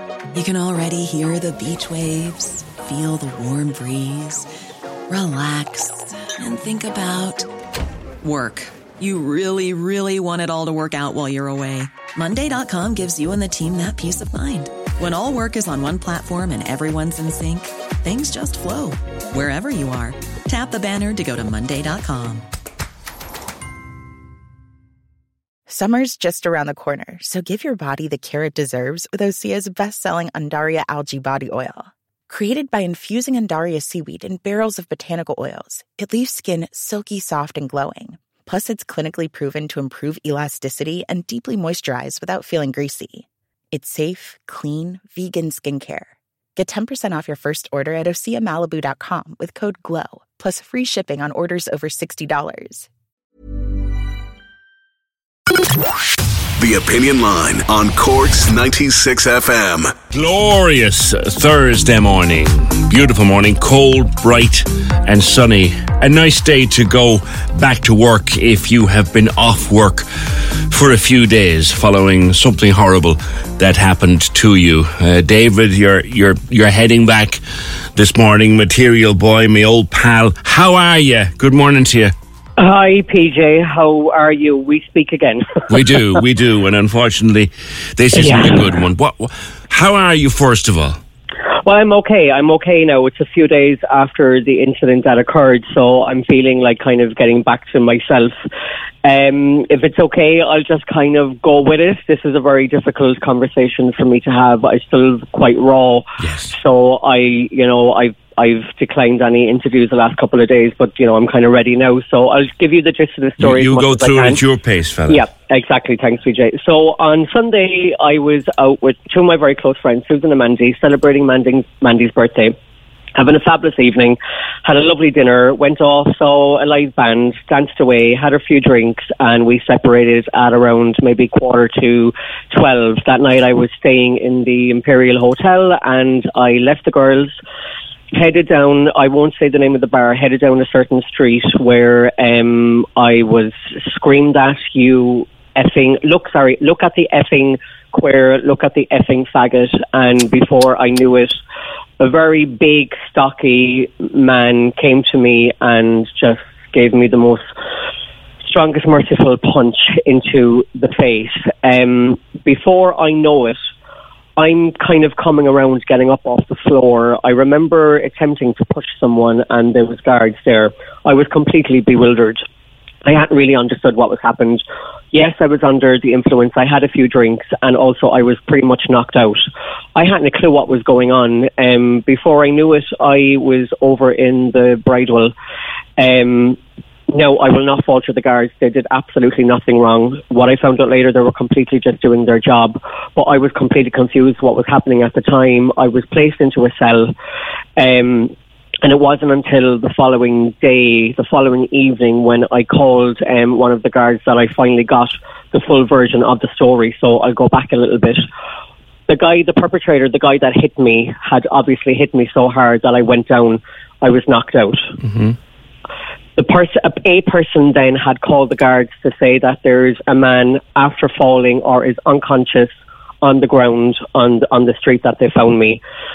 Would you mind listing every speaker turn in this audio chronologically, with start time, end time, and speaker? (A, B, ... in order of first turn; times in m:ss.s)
0:00.3-0:04.4 A
0:05.1-0:07.5 A
0:08.2-0:22.4 A
0:25.7-0:52.9 B
0:56.6-1:00.0 C
1:00.1-1:17.4 D
1:17.9-1:22.1 D
1:22.6-1:26.0 E
1:25.7-1:31.0 D
1:28.1-1:28.7 E
1:31.6-1:38.3 E
1:39.0-1:54.4 E
1:46.2-1:46.5 D
1:53.4-1:55.2 D
1:55.1-2:02.5 E
2:03.1-2:17.3 E
2:18.1-2:31.4 E
2:32.0-2:37.4 E
2:38.4-2:43.6 E
2:44.4-2:52.4 E
2:53.0-2:59.4 E
2:59.9-3:05.3 E
3:06.0-3:06.6 E
3:07.1-3:17.1 E
3:17.8-3:28.2 E
3:29.1-3:34.9 E
3:35.0-3:35.3 D
3:36.4-3:42.7 E
3:43.2-3:45.8 E